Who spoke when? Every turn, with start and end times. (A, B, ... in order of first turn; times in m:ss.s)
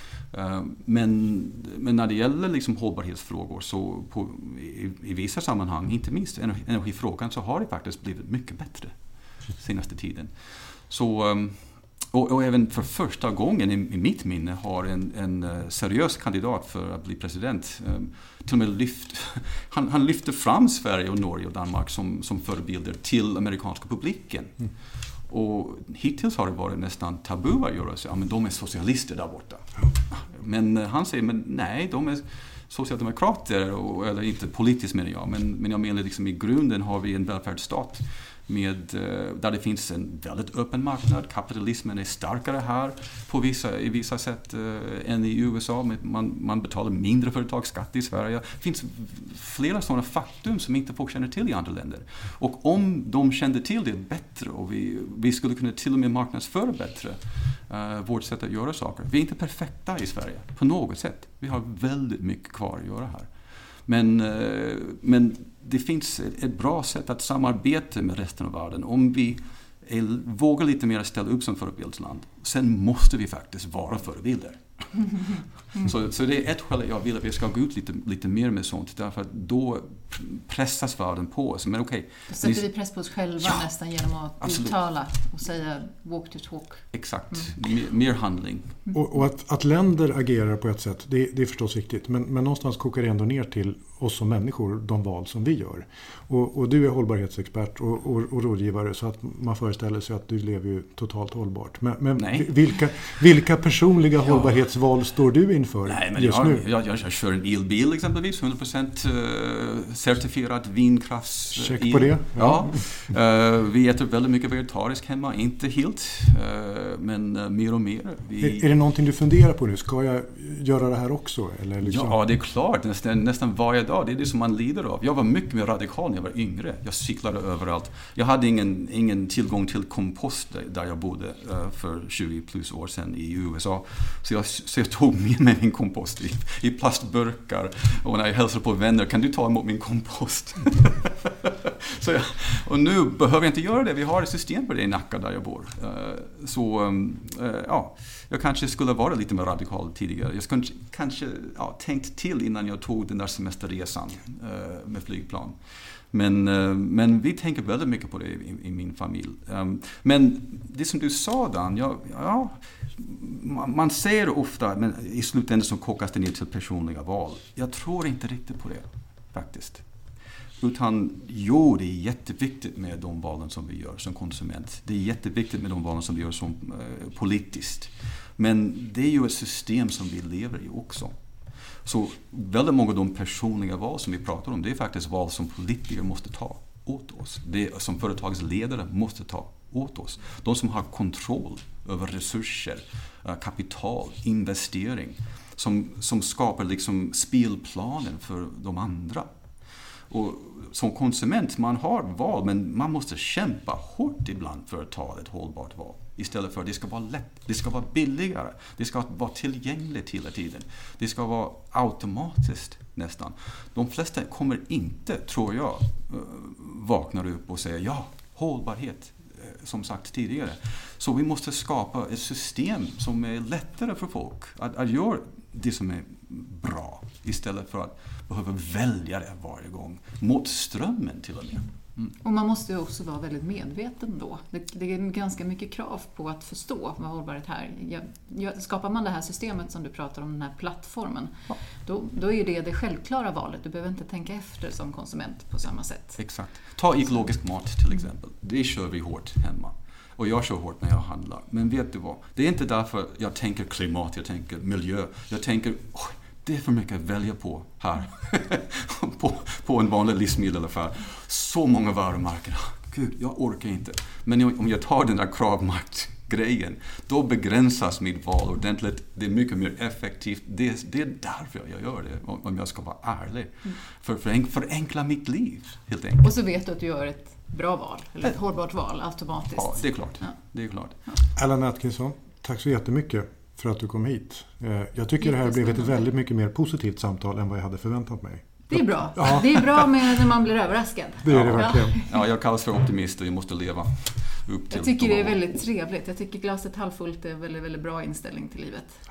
0:00.3-0:08.9 A
0:09.6-0:10.3 A
0:10.9-0:24.6 A
0:25.3-1:03.3 A
1:03.8-1:22.6 A
1:22.3-1:27.5 B
1:24.4-1:24.7 A
1:26.9-1:28.8 A
1:28.9-1:46.6 C
1:42.2-1:42.5 A
1:44.2-1:44.5 A
1:45.8-1:58.6 A
1:51.5-1:52.8 C
1:58.4-2:02.2 C
2:01.8-2:35.6 A
2:36.1-2:49.8 A
2:50.6-3:01.1 A
3:01.8-3:19.3 A
3:20.1-3:52.1 A
3:52.2-4:06.2 B
4:06.2-4:36.3 A
4:36.2-4:40.3 B
4:39.5-4:41.0 A
4:41.3-4:48.5 C
4:45.2-4:46.0 B
4:48.7-4:52.0 B
4:49.2-4:49.4 C
4:51.2-4:52.0 C
4:51.3-4:55.4 A
4:54.7-4:59.0 B